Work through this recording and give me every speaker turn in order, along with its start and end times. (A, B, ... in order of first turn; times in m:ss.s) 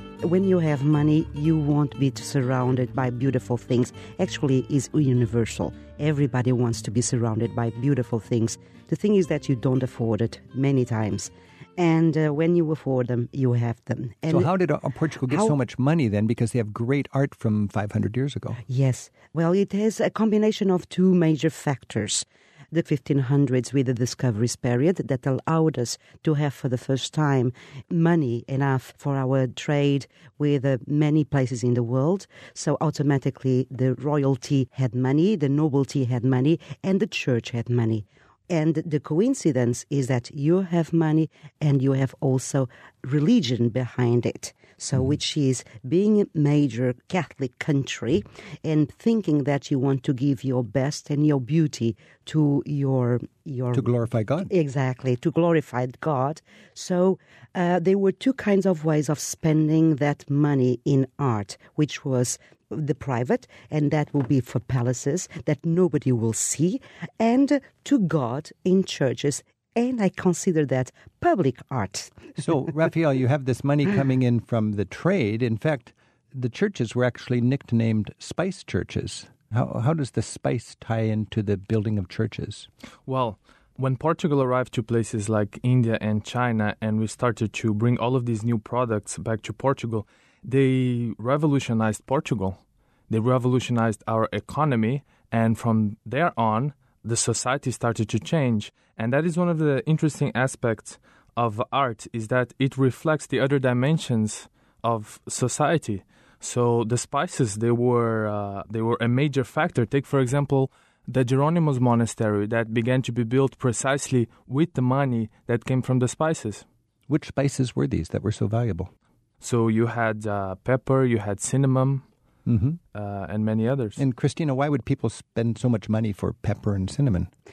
0:00.2-0:14.5 A
0:14.3-0:18.6 B
0:18.7-0:53.9 A
0:53.7-0:54.5 B
0:54.4-1:12.4 A
1:12.4-1:22.7 B
1:23.0-1:56.6 C
1:57.1-1:58.9 B
1:59.4-2:02.0 C
2:02.4-2:02.8 B
2:02.9-2:04.0 C
2:04.0-2:07.3 B